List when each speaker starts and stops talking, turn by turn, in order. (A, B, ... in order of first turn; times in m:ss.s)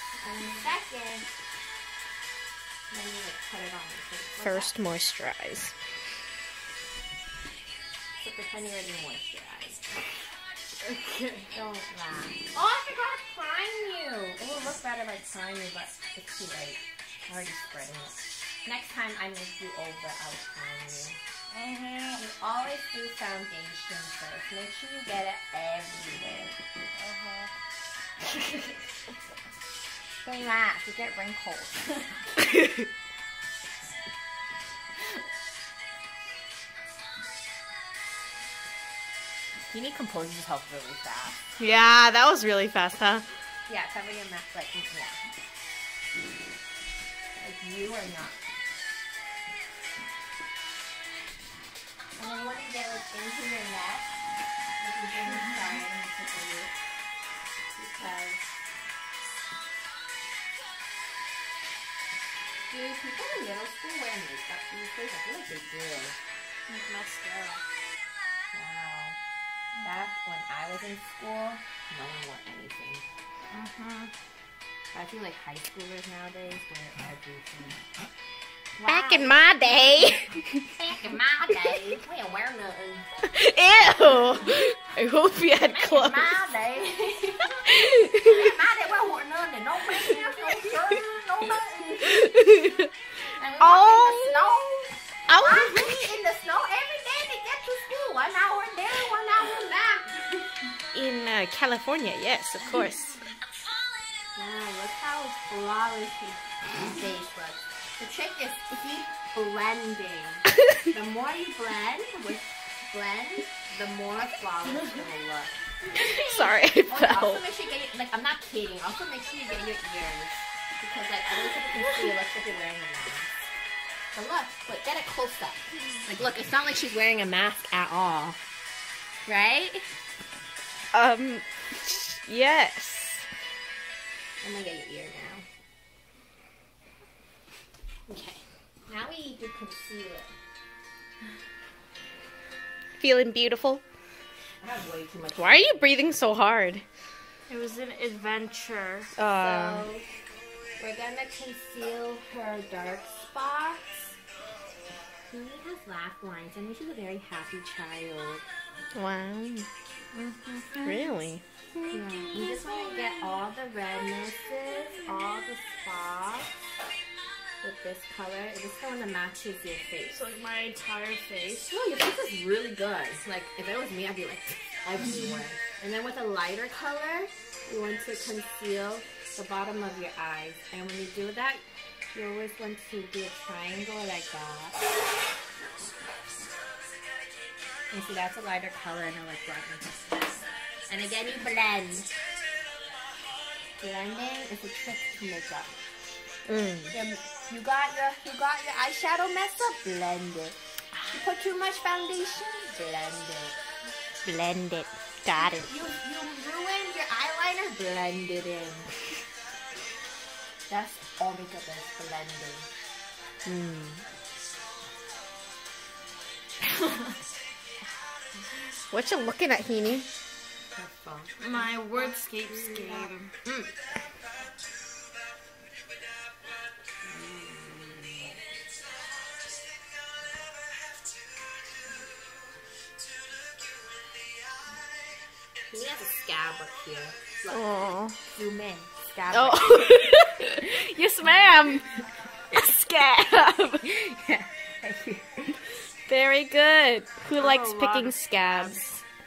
0:00.2-0:01.3 A
0:02.9-0:04.8 A
0:04.4-0:05.7 B
0:08.2-0:09.9 A
0:10.8-0:11.5 C
0:11.5-0:21.2 A
0:21.5-0:22.2 C
0:22.2-0:26.6 A
0:27.0-0:27.5 C
0:28.3-0:28.7 C
0:30.2-0:32.2 A
0:32.4-0:32.8 B
0:39.7-0:41.4 A
0:41.6-0:43.2 B
0:43.7-0:45.2 A
0:47.4-0:48.4 A
0:52.2-0:54.2 A
0:54.8-0:56.7 A
0:55.3-0:55.6 C
0:57.7-0:58.4 A
1:02.7-1:06.2 A
1:06.7-1:07.6 C
1:08.5-1:09.2 A
1:09.8-1:13.0 A
1:13.5-1:14.1 C
1:14.9-1:17.8 A
1:18.8-1:19.3 A
1:18.8-1:20.7 B
1:20.8-1:23.1 A
1:23.2-1:26.3 B
1:25.6-1:32.3 A
1:27.7-1:28.5 B
1:32.1-1:32.9 B
1:33.3-1:40.4 A
1:33.6-1:34.4 B
1:35.3-1:36.1 B
1:40.9-1:43.2 B
1:44.3-2:03.3 A
1:55.9-1:57.4 B
2:04.1-2:08.4 A
2:09.3-2:09.9 A
2:10.9-2:13.3 B
2:14.4-2:15.5 A
2:18.9-2:20.3 A
2:23.0-2:23.8 B
2:24.6-2:25.6 A
2:25.4-2:26.8 B
2:27.5-2:29.1 C
2:29.2-2:29.9 B
2:29.3-2:30.1 A
2:30.8-2:33.8 A
2:35.3-2:38.4 A
2:38.9-2:39.7 B
2:40.1-2:41.1 C
2:40.8-2:41.4 B
2:41.9-2:42.3 C
2:41.9-2:46.5 A
2:47.6-2:50.2 A
2:50.1-2:51.7 C
2:51.7-3:04.8 A
3:07.9-3:10.2 A
3:10.9-3:12.1 A
3:13.8-3:15.8 A
3:16.5-3:17.0 B
3:16.9-3:20.6 A
3:21.1-3:23.6 A
3:24.2-3:25.7 B
3:25.3-3:28.9 A
3:30.7-3:32.7 A
3:33.4-3:34.0 B
3:36.8-3:37.1 C
3:38.9-3:40.1 B
3:40.7-3:43.1 A
3:41.4-3:43.3 C
3:47.0-3:48.4 A
3:55.7-4:00.0 A
3:57.5-3:58.2 B
3:59.3-4:01.9 B
4:02.5-4:03.9 B
4:03.8-4:05.6 A
4:06.1-4:09.0 B
4:07.4-4:08.8 C